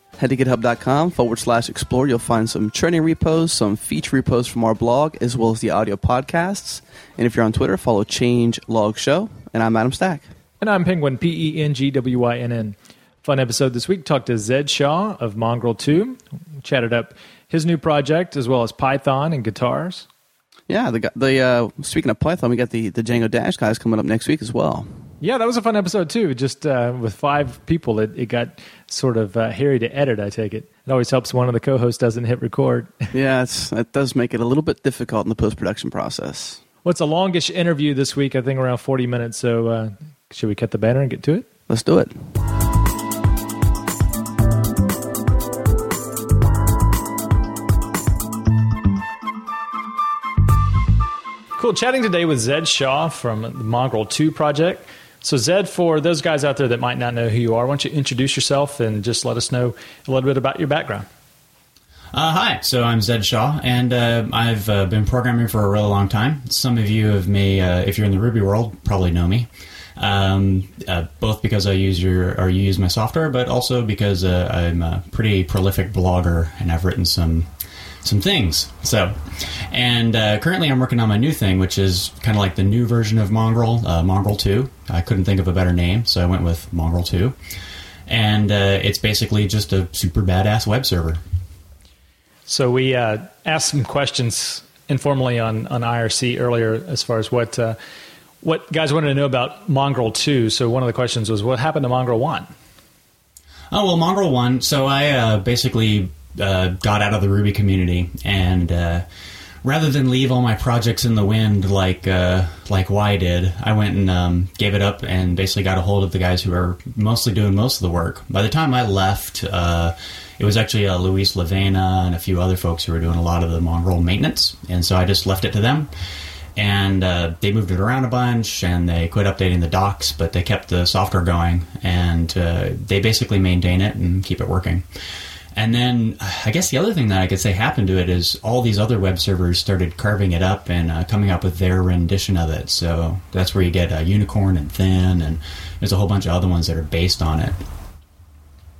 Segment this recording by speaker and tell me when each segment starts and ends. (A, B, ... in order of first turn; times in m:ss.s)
0:00.2-0:10.2 A
0:10.6-0:20.0 B
0:20.7-0:24.9 A
0:25.2-0:33.0 B
0:33.1-0:36.6 A
0:36.8-0:41.4 B
0:41.7-0:42.1 A
0:51.6-1:01.0 B
1:02.1-1:17.5 C
1:18.0-1:27.3 C
1:28.1-1:31.2 C
1:32.5-1:37.8 B
1:38.4-1:42.5 B
1:43.7-1:49.0 C
1:49.6-2:05.9 C
2:06.6-2:14.8 C
2:15.5-2:27.6 C